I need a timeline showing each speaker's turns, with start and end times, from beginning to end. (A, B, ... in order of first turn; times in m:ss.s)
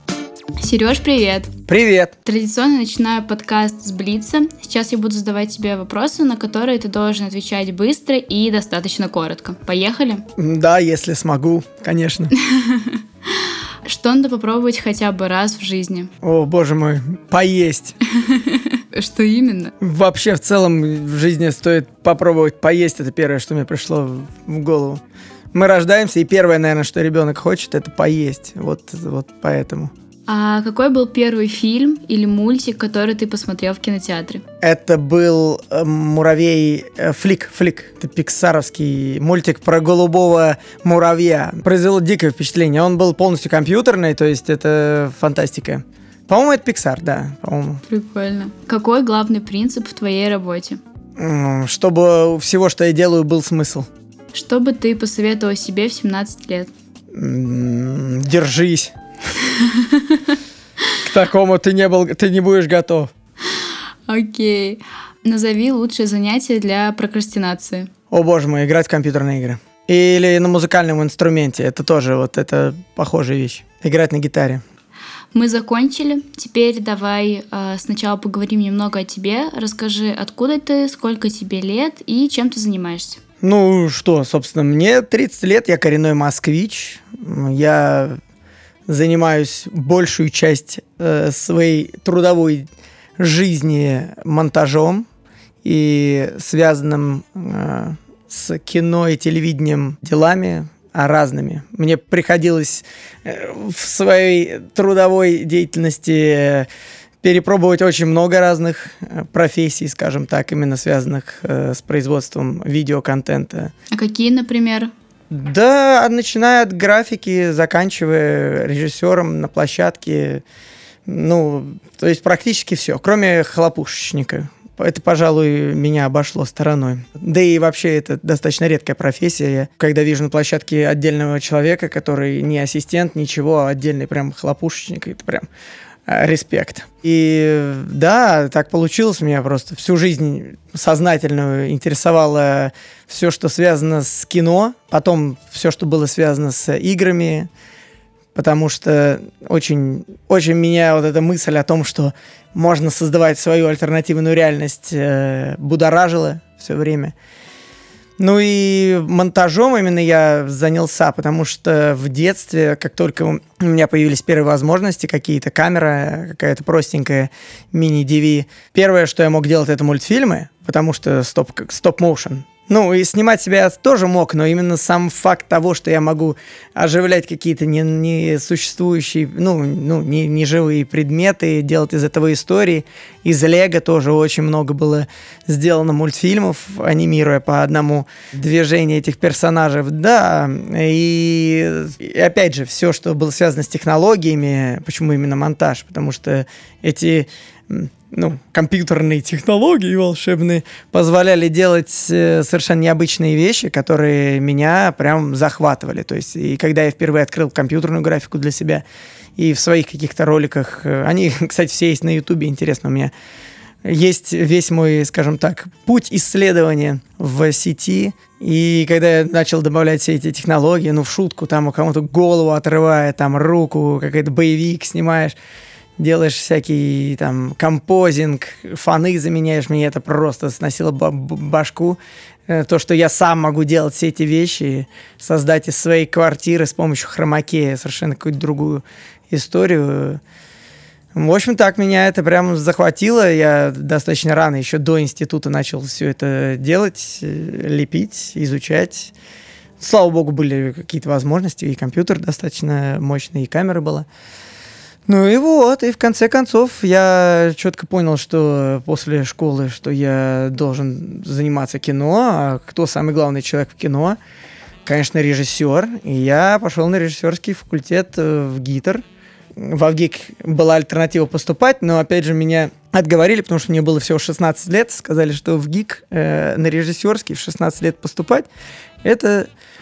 0:00.6-0:01.5 A
0:01.7-0:02.1 B
0:02.2-0:10.2 A
0:10.4-0:12.3 B
0:12.4-0:16.1 A
0:16.2-0:18.0 B
0:18.1-0:19.7 A
0:19.8-0:25.0 B
0:25.5-0:29.9 B
0:30.3-0:34.4 A
0:34.6-0:47.8 B
0:47.9-0:50.8 A
0:51.2-0:53.9 B
0:54.3-0:56.7 A
0:57.1-0:58.9 B
0:59.4-1:00.4 A
1:01.0-1:03.1 B
1:03.5-1:07.9 A
1:08.1-1:14.6 B
1:15.3-1:23.2 A
1:23.4-1:28.2 B
1:28.9-1:32.6 B
1:33.2-1:35.0 B
1:35.6-1:46.7 B
1:47.2-1:53.7 B
1:53.9-1:54.9 A
1:55.3-2:00.4 B
2:01.1-2:15.5 B
2:16.1-2:27.5 B
2:28.3-2:37.1 B
2:38.2-3:28.8 B
3:29.4-3:33.1 B
3:33.8-3:45.4 B
3:46.0-4:00.2 B
4:01.1-4:09.1 B
4:09.8-4:14.0 B
4:15.1-4:24.2 B
4:24.8-4:29.0 B
4:29.6-4:38.5 B
4:39.0-4:39.5 B